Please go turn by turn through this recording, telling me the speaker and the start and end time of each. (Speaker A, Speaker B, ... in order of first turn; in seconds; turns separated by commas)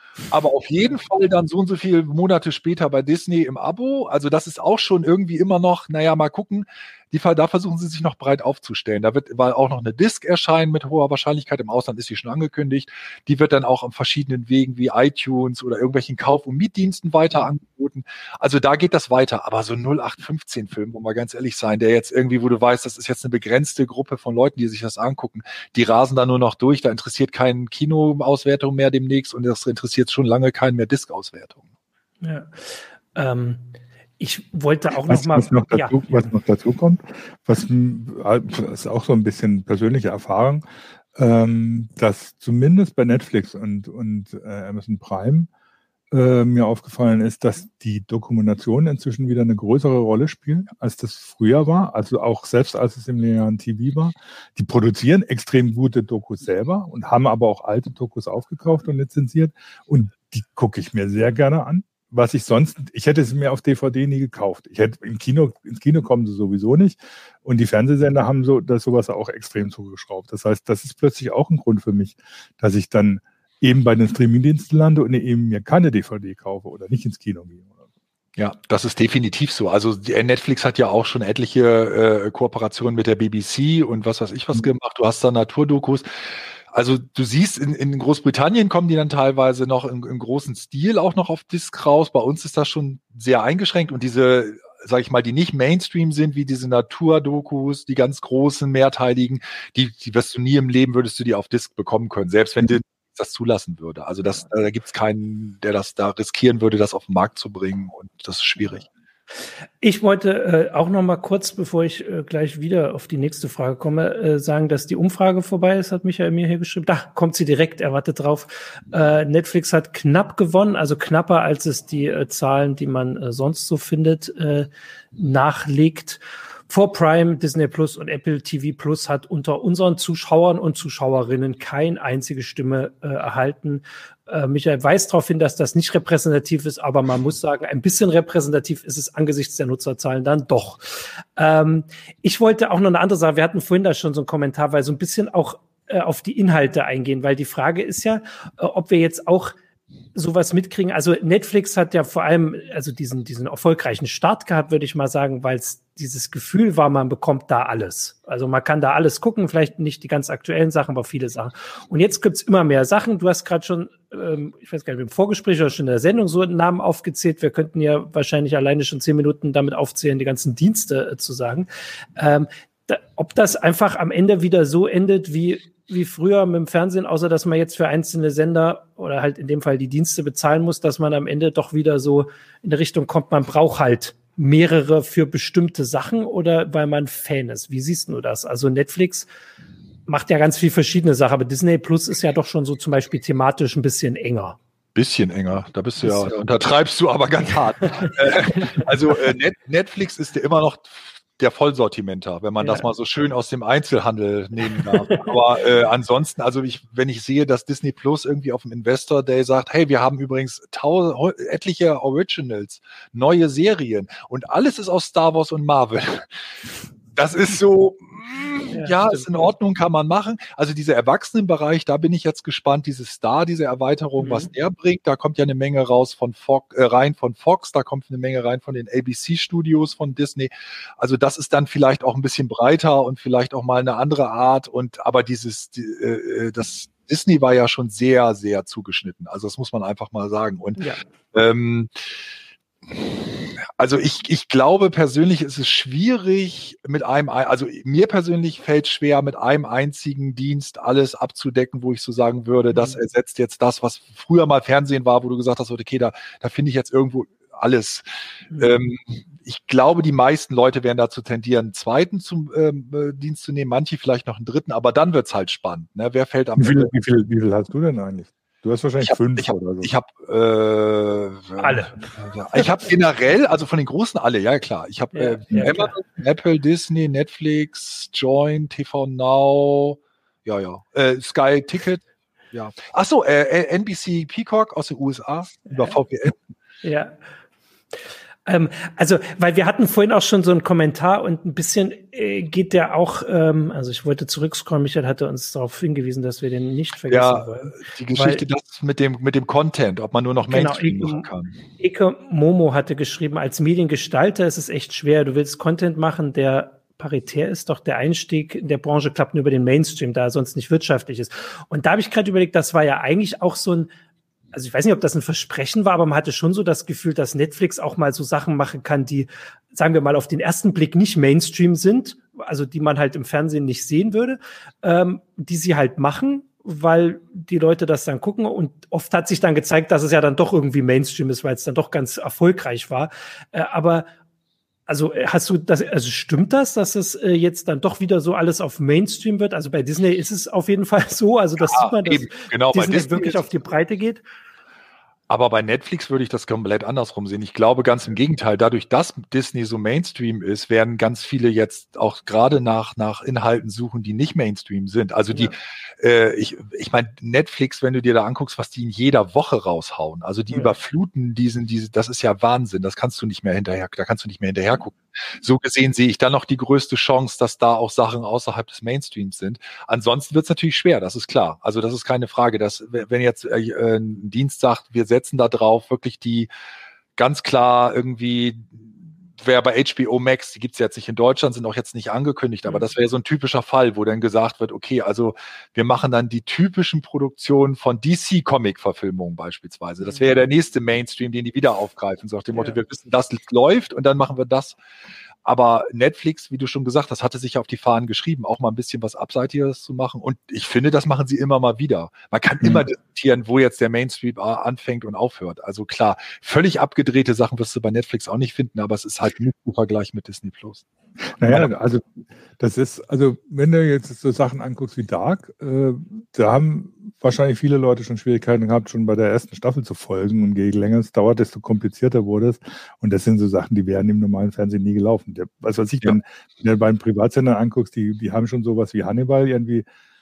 Speaker A: 0.3-31.6, Speaker B: 32.2-33.7, Speaker B: 34.2-36.3, Speaker C: 35.1-40.6, Speaker C: 41.1-45.5, Speaker C: 46.1-77.7, Speaker A: 78.4-86.1, Speaker A: 86.7-108.8, Speaker B: 109.8-149.5, Speaker B: 150.1-189.3, Speaker B: 190.1-194.6, Speaker A: 194.9-216.3, Speaker B: 196.1-196.3, Speaker B: 202.6-202.9, Speaker B: 205.0-205.3, Speaker A: 217.1-240.8, Speaker B: 218.7-219.5, Speaker B: 224.2-224.5, Speaker A: 241.3-241.9, Speaker A: 243.8-258.0, Speaker B: 252.7-253.0, Speaker B: 258.5-258.8, Speaker A: 258.6-266.9, Speaker C: 266.6-269.9, Speaker A: 269.0-286.4, Speaker B: 271.6-272.0, Speaker B: 275.1-275.9, Speaker B: 285.7-285.9, Speaker B: 286.8-287.1, Speaker B: 288.4-298.4, Speaker A: 297.1-301.6, Speaker B: 300.5-301.2, Speaker B: 301.8-313.9, Speaker B: 314.5-334.1, Speaker B: 334.9-344.2, Speaker A: 341.6-343.5, Speaker A: 345.3-376.5, Speaker B: 360.5-360.8, Speaker A: 377.2-394.8, Speaker B: 390.1-390.4, Speaker A: 395.4-410.8, Speaker C: 411.4-429.9